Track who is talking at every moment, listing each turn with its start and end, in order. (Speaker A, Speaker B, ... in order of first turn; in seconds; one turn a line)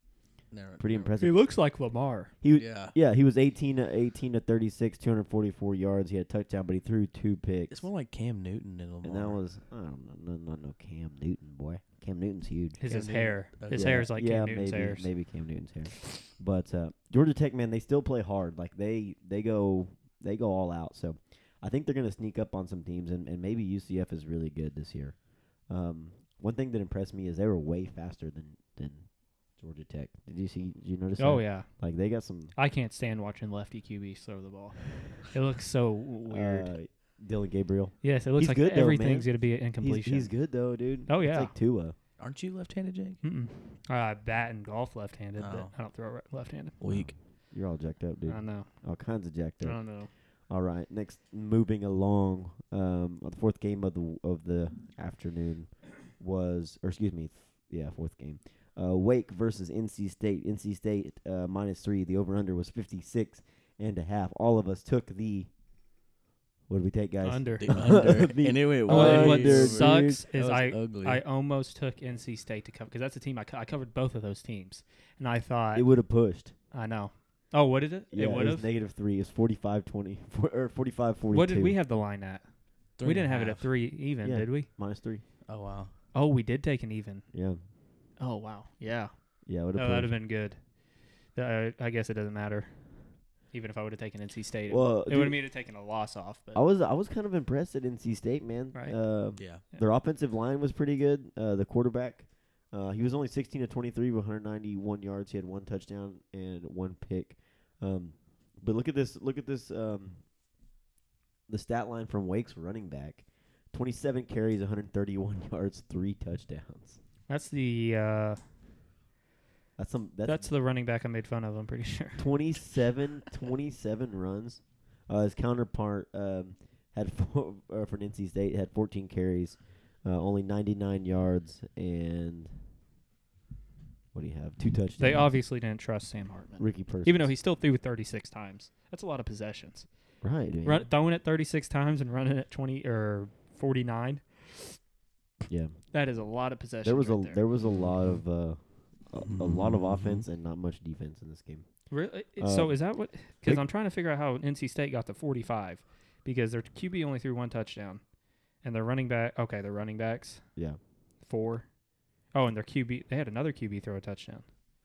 Speaker A: 0.5-1.1
Speaker B: 0.8-1.5
Speaker C: 1.2-2.3
Speaker B: 2.4-7.9
Speaker A: 2.5-3.0
Speaker A: 7.7-9.4
Speaker B: 9.0-12.8
Speaker C: 12.8-15.1
Speaker A: 12.9-14.0
Speaker B: 13.7-32.5
Speaker C: 31.2-31.7
Speaker C: 32.5-36.7
Speaker B: 36.3-42.0
Speaker C: 38.0-40.4
Speaker C: 41.1-41.5
Speaker A: 42.2-43.2
Speaker C: 43.2-46.8
Speaker A: 45.4-45.8
Speaker A: 46.8-47.1
Speaker B: 46.9-65.5
Speaker C: 48.3-48.7
Speaker C: 49.6-50.1
Speaker B: 66.7-70.2
Speaker C: 67.2-68.1
Speaker A: 67.6-71.2
Speaker C: 68.9-75.9
Speaker B: 75.7-76.5
Speaker C: 76.7-78.7
Speaker B: 78.1-81.8
Speaker C: 81.3-84.7
Speaker A: 83.0-83.7
Speaker B: 84.2-85.2
Speaker A: 85.5-85.9
Speaker C: 86.1-87.3
Speaker B: 87.3-87.6
Speaker C: 88.2-89.2
Speaker B: 89.5-90.1
Speaker C: 89.7-90.6
Speaker C: 91.3-92.8
Speaker C: 93.5-96.6
Speaker B: 94.7-95.4
Speaker B: 96.5-110.2
Speaker C: 98.7-99.0
Speaker A: 99.4-99.6
Speaker B: 111.5-117.0
Speaker C: 117.3-118.4
Speaker B: 119.8-120.5
Speaker C: 120.2-122.5
Speaker B: 122.2-132.6
Speaker B: 134.1-135.3
Speaker C: 135.0-140.1
Speaker B: 136.6-137.3
Speaker B: 140.2-140.9
Speaker C: 140.6-144.8
Speaker B: 145.5-145.9
Speaker C: 145.9-147.4
Speaker B: 146.8-153.6
Speaker A: 147.6-148.2
Speaker A: 149.2-150.3
Speaker C: 151.9-158.1
Speaker C: 158.6-160.6
Speaker C: 161.2-164.5